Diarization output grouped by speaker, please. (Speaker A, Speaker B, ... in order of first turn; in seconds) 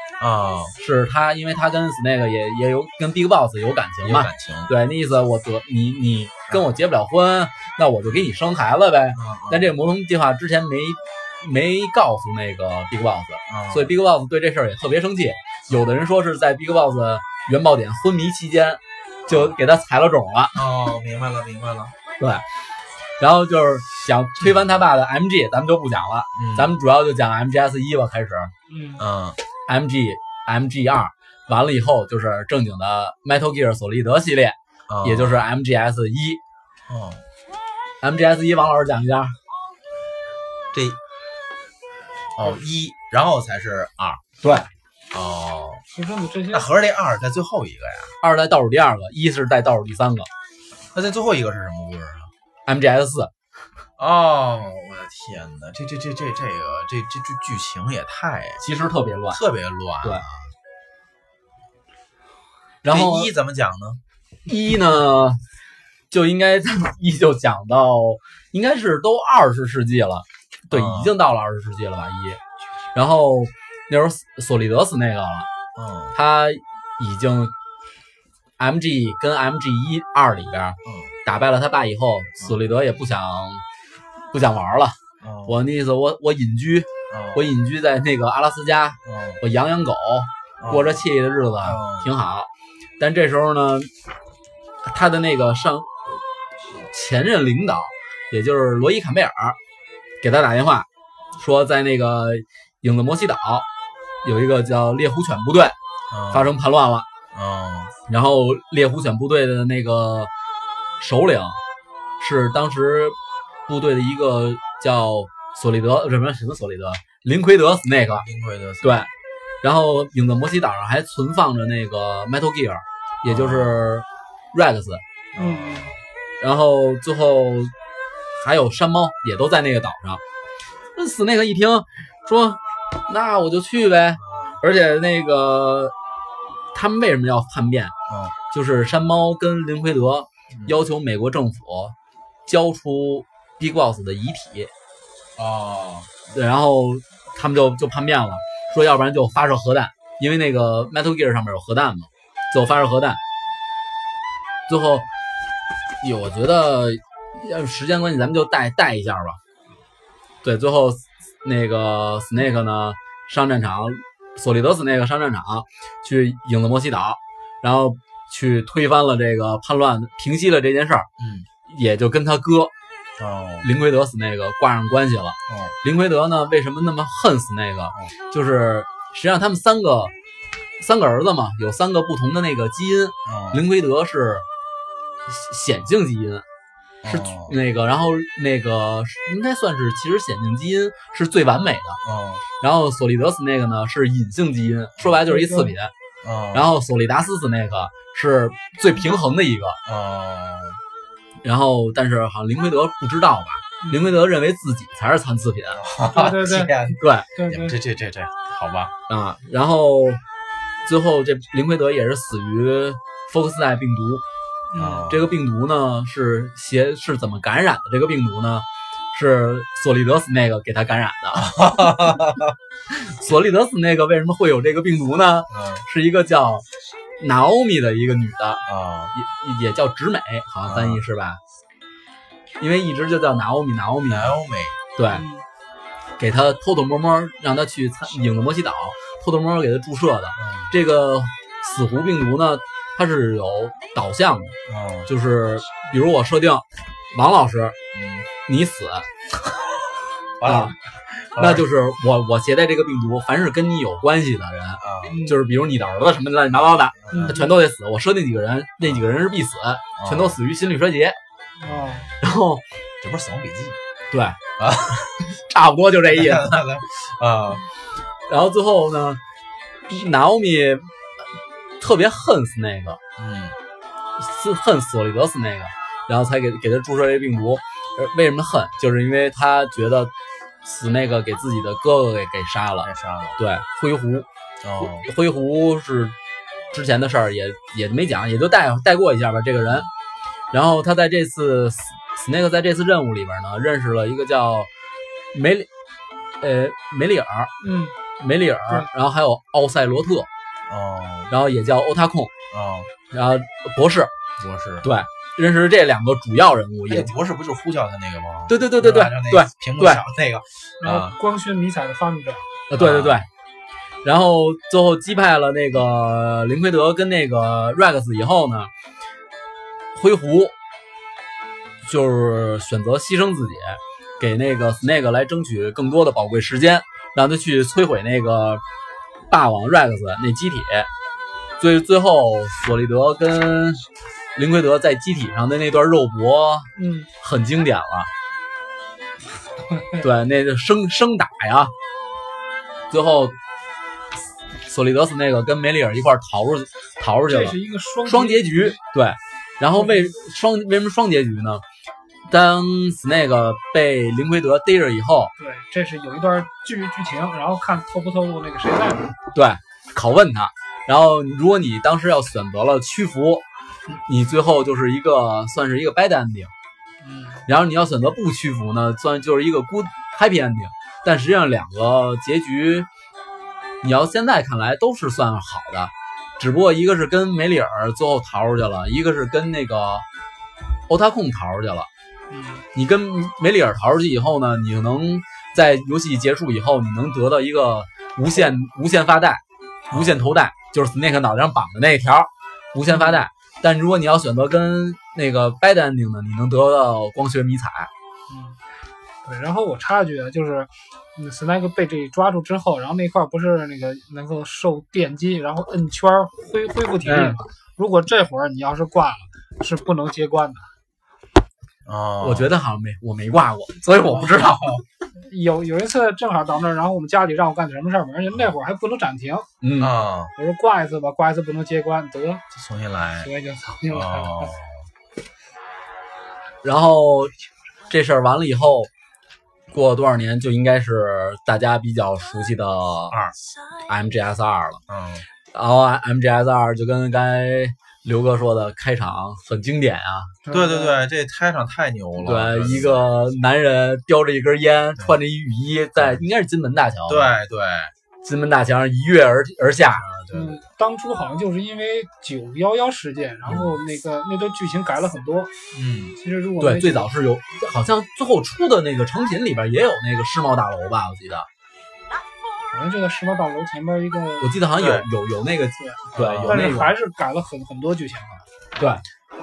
Speaker A: 0.2-0.8, 4.0-4.7, 9.2-9.8, 13.5-13.9, 19.3-19.6, 20.6-21.9, 26.4-26.7, 29.0-29.4, 34.9-35.4, 36.9-37.2, 40.7-41.0, 42.4-44.2, 45.1-45.8, 46.5-48.1, 50.9-52.3, 54.0-58.6, 59.3-60.5, 62.9-64.0, 70.7-71.1, 75.8-76.2, 80.8-81.1, 85.2-85.6, 87.1-87.5, 89.0-89.4, 90.6-91.0, 91.6-92.1, 106.1-106.5, 107.3-107.9, 118.1-119.1, 123.2-123.8, 125.3-126.0, 134.3-134.6, 138.1-138.3, 145.4-146.1, 171.2-171.5, 173.2-173.7, 175.5-175.8, 183.3-183.6, 187.0-187.5, 192.0-192.4, 196.2-196.7, 199.9-200.8, 205.8-208.9, 214.8-215.3, 221.4-222.6, 225.5-225.8, 228.7-229.1, 230.7-231.0, 234.1-234.8, 240.4-240.7, 244.7-245.1, 247.9-248.3, 250.4-251.7, 254.8-255.2, 256.5-257.4, 260.0-260.4, 261.6-262.0, 263.0-263.8, 264.6-265.3, 266.1-267.7, 273.2-273.6, 282.8-283.4, 284.6-285.1, 300.7-301.3, 302.5-302.9, 304.4-304.9, 306.9-311.2, 312.7-313.2, 389.9-390.3, 411.9-412.5, 414.2-414.8, 419.8-420.3, 422.5-423.3, 423.9-424.8, 433.1-433.4, 434.9-435.3, 440.5-443.1, 447.1-447.9, 449.8-450.6, 453.4-453.8, 455.7-456.2, 464.8-465.1, 466.1-466.8
Speaker B: 0.8-20.6, 23.2-28.5, 29.7-36.4, 38.0-39.4, 44.4-44.7, 48.2-50.3, 52.7-53.3, 58.6-59.4, 62.8-63.3, 64.5-65.4, 66.1-72.4, 72.9-75.5, 76.1-77.5, 78.6-83.6, 84.3-93.9, 94.8-99.6, 100.2-103.7, 104.2-105.8, 106.3-107.1, 108.1-110.3, 111.0-111.6, 112.2-118.2, 118.8-119.1, 119.6-125.0, 126.4-127.7, 128.4-130.2, 131.0-135.9, 136.7-137.9, 138.5-141.9, 142.5-144.7, 146.3-153.2, 154.7-155.1, 156.0-159.4, 160.4-171.1, 171.7-172.7, 173.6-180.1, 180.8-184.4, 185.3-186.4, 187.1-192.0, 192.6-195.9, 196.5-199.8, 201.4-205.8, 207.0-207.3, 209.1-210.2, 210.8-214.2, 215.1-221.9, 222.9-226.7, 227.2-231.4, 232.6-234.4, 235.0-235.2, 236.2-244.6, 245.1-247.8, 248.5-249.1, 250.4-250.7, 251.4-261.2, 262.2-262.6, 264.1-264.4, 265.5-266.6, 268.3-269.2, 269.9-270.9, 271.8-273.0, 274.2-280.1, 280.6-284.3, 284.8-286.2, 286.7-289.9, 290.5-294.7, 295.3-295.7, 296.4-297.5, 298.2-300.3, 301.3-302.3, 303.1-304.1, 304.8-307.1, 308.5-310.0, 312.7-313.3, 314.0-318.7, 319.9-320.5, 321.8-328.6, 329.3-330.9, 331.6-338.1, 340.0-341.7, 342.9-343.4, 344.6-351.6, 352.3-355.3, 359.3-363.4, 364.1-366.5, 367.5-372.9, 373.8-380.1, 380.9-381.9, 382.7-397.9, 407.0-407.4, 412.2-414.8, 419.6-419.9, 426.6-427.3, 427.9-428.9, 429.7-433.2, 433.9-434.8, 435.5-440.4, 442.2-447.3, 448.2-450.0, 456.6-461.5, 464.4-466.9, 468.8-469.0
Speaker C: 28.7-29.0, 45.9-46.7, 125.4-126.0, 195.3-195.7, 203.8-204.2, 206.1-207.8, 214.7-215.1, 235.1-235.4, 255.1-255.4, 257.1-257.6, 261.6-262.1, 297.6-298.0, 310.8-312.6, 336.8-337.1, 347.3-348.8, 349.8-350.1, 355.4-359.1, 367.0-367.4, 382.3-382.7, 392.9-393.2, 398.3-398.6, 399.2-410.7, 415.2-419.5, 420.4-422.4, 423.2-424.5, 440.4-441.1, 450.3-455.5, 456.1-457.1, 462.7-464.6, 465.8-468.4